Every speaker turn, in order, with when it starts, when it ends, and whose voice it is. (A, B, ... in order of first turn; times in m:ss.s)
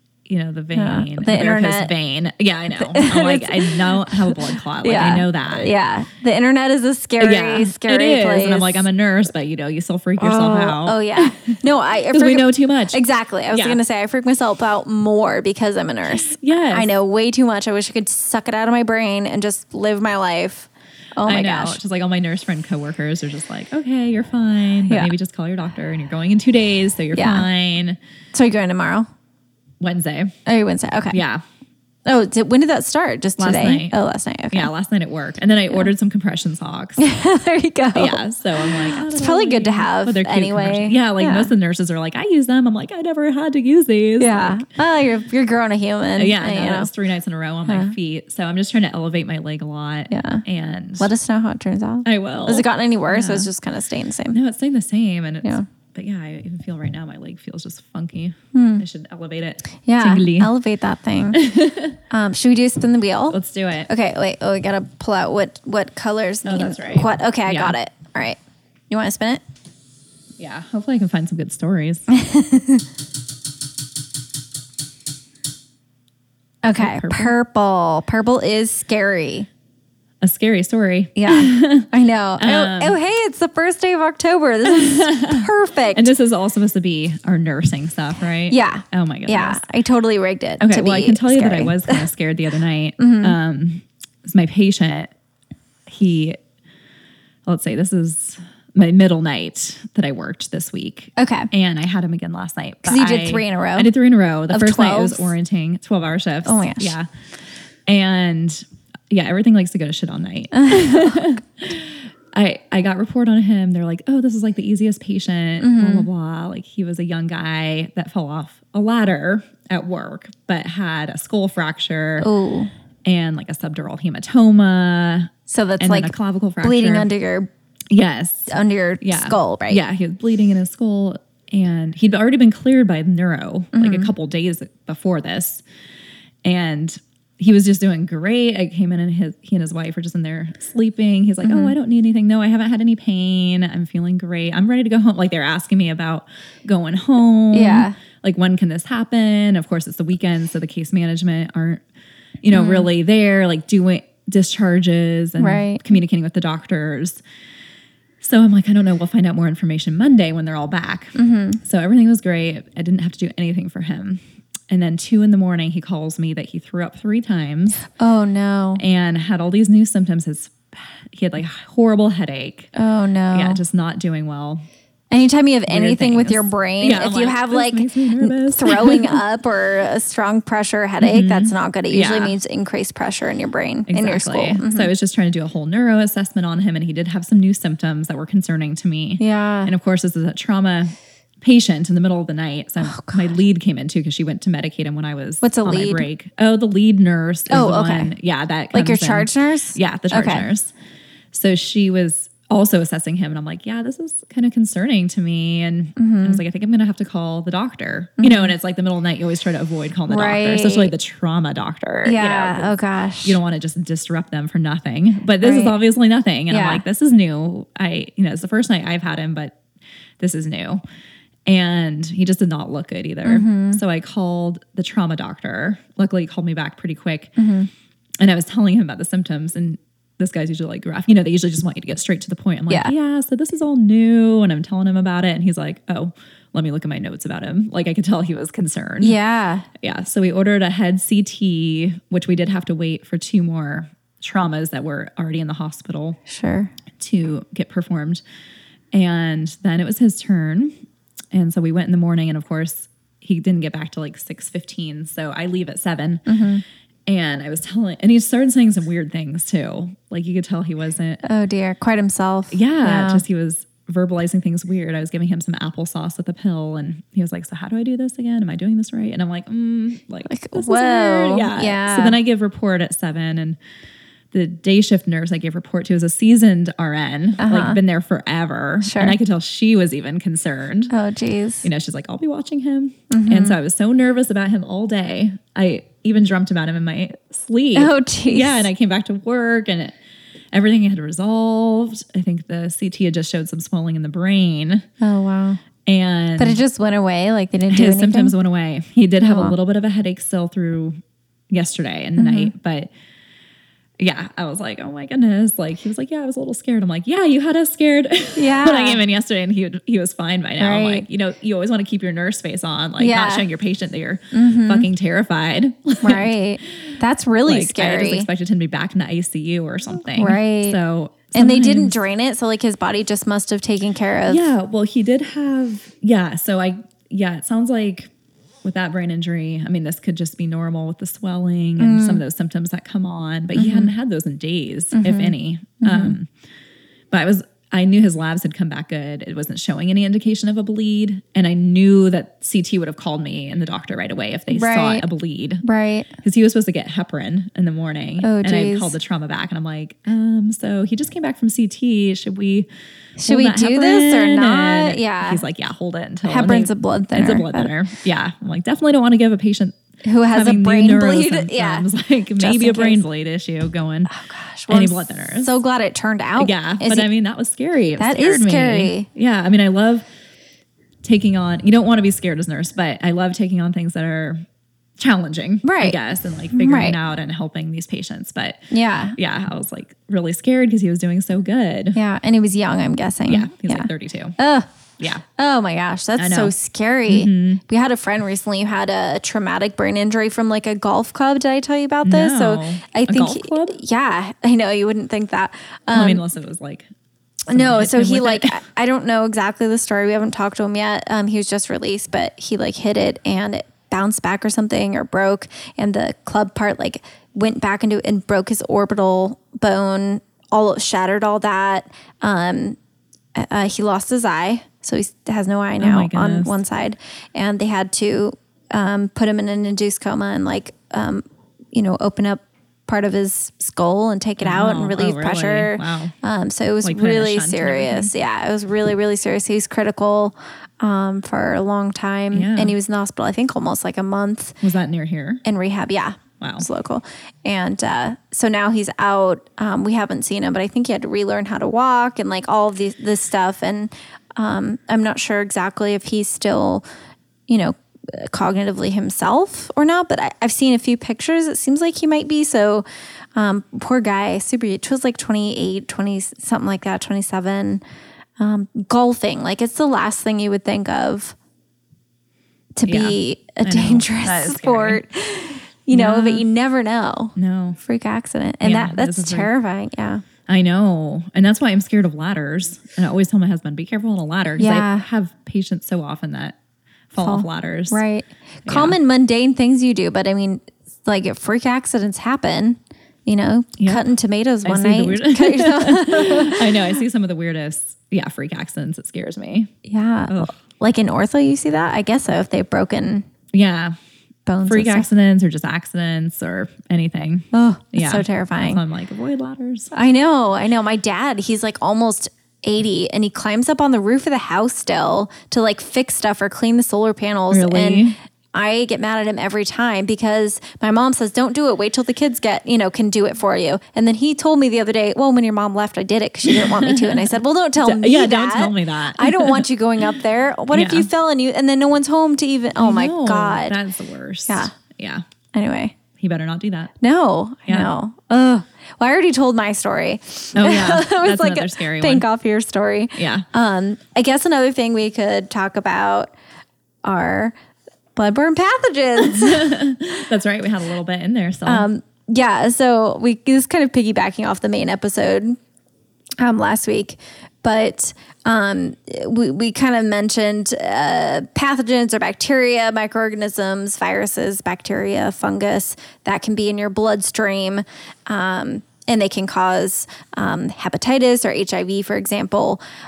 0:00.3-0:05.8 A
0:00.8-0:01.9 B
0:02.8-0:08.9 B
0:07.2-0:11.3 A
0:10.2-0:21.8 B
0:12.1-0:13.0 A
0:13.5-0:13.8 A
0:16.1-0:16.9 A
0:21.2-0:28.0 A
0:24.9-0:25.1 B
0:27.1-0:27.5 B
0:28.3-0:29.1 B
0:29.8-0:30.3 A
0:30.5-0:31.2 B
0:31.1-0:31.4 A
0:32.1-0:34.7 B
0:33.4-0:34.0 A
0:34.5-0:37.0 A
0:37.0-0:41.5 B
0:38.0-0:44.6 A
0:44.2-0:46.9 B
0:46.2-0:51.1 A
0:47.7-0:48.0 B
0:50.1-0:50.4 B
0:51.0-0:54.4 B
0:52.0-0:53.5 A
0:54.3-1:00.5 A
0:58.5-0:58.8 B
0:59.8-1:01.5 B
1:01.3-1:02.0 A
1:02.1-1:08.4 B
1:03.3-1:03.9 A
1:06.4-1:07.8 A
1:08.9-1:09.4 B
1:10.4-1:12.0 A
1:12.1-1:12.8 B
1:16.6-1:19.5 B
1:16.8-1:17.3 A
1:20.2-1:23.0 A
1:21.2-1:26.1 B
1:24.6-1:29.6 A
1:28.5-1:32.1 B
1:30.6-1:35.1 A
1:33.0-1:33.4 B
1:35.9-1:36.4 A
1:37.5-1:47.1 A
1:41.2-1:41.5 B
1:42.8-1:43.9 B
1:44.5-1:45.3 B
1:46.4-1:47.0 B
1:47.9-2:02.3 A
1:50.5-1:51.3 B
1:55.6-1:56.1 B
2:02.2-2:02.7 B
2:03.0-2:07.1 A
2:05.5-2:07.5 B
2:07.9-2:15.6 A
2:08.5-2:09.8 B
2:13.7-2:14.1 B
2:16.4-2:31.8 A
2:21.4-2:21.8 B
2:27.5-2:28.0 B
2:32.4-2:37.2 A
2:32.5-2:32.9 B
2:35.4-2:36.0 B
2:38.2-2:47.8 A
2:41.2-2:41.6 B
2:47.9-2:48.8 B
2:48.8-2:52.7 A
2:52.8-2:53.6 B
2:53.3-2:54.6 A
2:55.1-3:04.9 B
2:55.7-2:59.2 A
3:01.0-3:02.4 A
3:03.9-3:20.7 A
3:09.2-3:09.7 B
3:12.8-3:13.4 B
3:15.4-3:16.1 B
3:17.5-3:18.1 B
3:18.7-3:20.5 B
3:21.3-3:39.6 A
3:26.0-3:26.4 B
3:28.2-3:28.5 B
3:30.1-3:30.9 B
3:32.0-3:33.4 B
3:35.4-3:35.8 B
3:36.5-3:36.8 B
3:40.2-3:40.8 A
3:41.5-3:47.4 A
3:43.2-3:43.8 B
3:47.4-3:47.7 B
3:48.2-3:59.2 A
3:52.7-3:52.9 B
3:59.0-3:59.7 B
3:59.8-4:06.2 A
4:06.3-4:06.7 B
4:07.0-4:08.2 A
4:08.9-4:10.7 A
4:11.3-4:16.2 A
4:16.3-4:16.6 B
4:17.1-4:21.2 A
4:21.2-4:23.2 B
4:22.5-4:33.6 A
4:30.3-4:32.2 B
4:34.3-4:40.9 A
4:37.4-4:37.8 B
4:38.8-4:39.2 B
4:40.9-4:41.7 B
4:41.6-4:50.0 A
4:43.1-4:43.6 B
4:47.8-4:48.7 B
4:50.5-4:54.8 A
4:55.0-4:55.6 B
4:55.9-4:56.6 A
4:56.4-4:58.4 B
4:57.7-5:01.0 A
4:59.2-4:59.6 B
5:01.5-5:02.9 A
5:02.2-5:02.5 B
5:04.0-5:16.3 A
5:08.4-5:09.0 B
5:10.6-5:11.1 B
5:13.0-5:13.5 B
5:14.3-5:14.9 B
5:16.0-5:18.3 B
5:17.5-5:22.0 A
5:20.0-5:20.8 B
5:21.3-5:24.5 B
5:24.3-5:28.1 A
5:28.6-5:36.3 A
5:31.8-5:32.2 B
5:33.6-5:33.9 B
5:35.0-5:36.2 B
5:37.1-5:45.6 A
5:44.5-5:45.1 B
5:45.6-5:46.1 B
5:46.2-5:52.7 A
5:48.2-5:49.0 B
5:53.2-5:55.4 B
5:53.3-5:59.8 A
5:56.2-5:57.7 B
6:00.0-6:03.0 B
6:00.3-6:04.1 A
6:04.1-6:07.1 B
6:04.7-6:05.5 A
6:06.4-6:10.1 A
6:08.0-6:09.1 B
6:11.0-6:14.4 A
6:15.0-6:22.0 A
6:15.6-6:16.0 B
6:16.5-6:17.0 B
6:18.7-6:19.2 B
6:21.9-6:36.2 B
6:23.3-6:24.4 A
6:26.2-6:26.5 A
6:27.1-6:27.6 A
6:32.0-6:33.8 A
6:35.9-6:36.9 A
6:37.5-6:52.8 B
6:37.5-6:38.6 A
6:53.4-7:14.6 B
6:55.8-6:56.5 A
7:04.4-7:06.1 A
7:06.8-7:08.1 A
7:12.3-7:12.8 A
7:14.6-7:15.4 A
7:15.4-7:26.8 B
7:16.4-7:16.7 A
7:27.5-7:37.8 B
7:38.4-7:41.4 B
7:42.8-7:50.2 B
7:42.9-7:45.0 A
7:45.9-7:46.5 A
7:47.4-7:47.8 A
7:48.6-7:49.5 A
7:50.5-7:56.6 A
7:54.6-7:55.1 B
7:57.1-7:58.0 A
7:57.2-8:06.8 B
7:58.7-7:59.0 A
8:04.6-8:09.7 A
8:09.8-8:13.3 B
8:13.5-8:14.0 A
8:14.5-8:15.1 B
8:14.7-8:19.9 A
8:17.5-8:18.8 B
8:19.9-8:43.8 B
8:27.5-8:28.2 A
8:36.5-8:39.7 A
8:40.7-8:41.1 A
8:42.8-8:45.2 A
8:45.5-8:46.0 B
8:46.2-8:46.9 A
8:47.0-8:56.3 B
8:50.6-8:52.2 A
8:53.2-8:53.5 A
8:57.0-8:57.5 B
8:58.2-8:59.7 B
8:59.2-9:01.9 A
9:01.7-9:05.6 B
9:06.4-9:22.8 B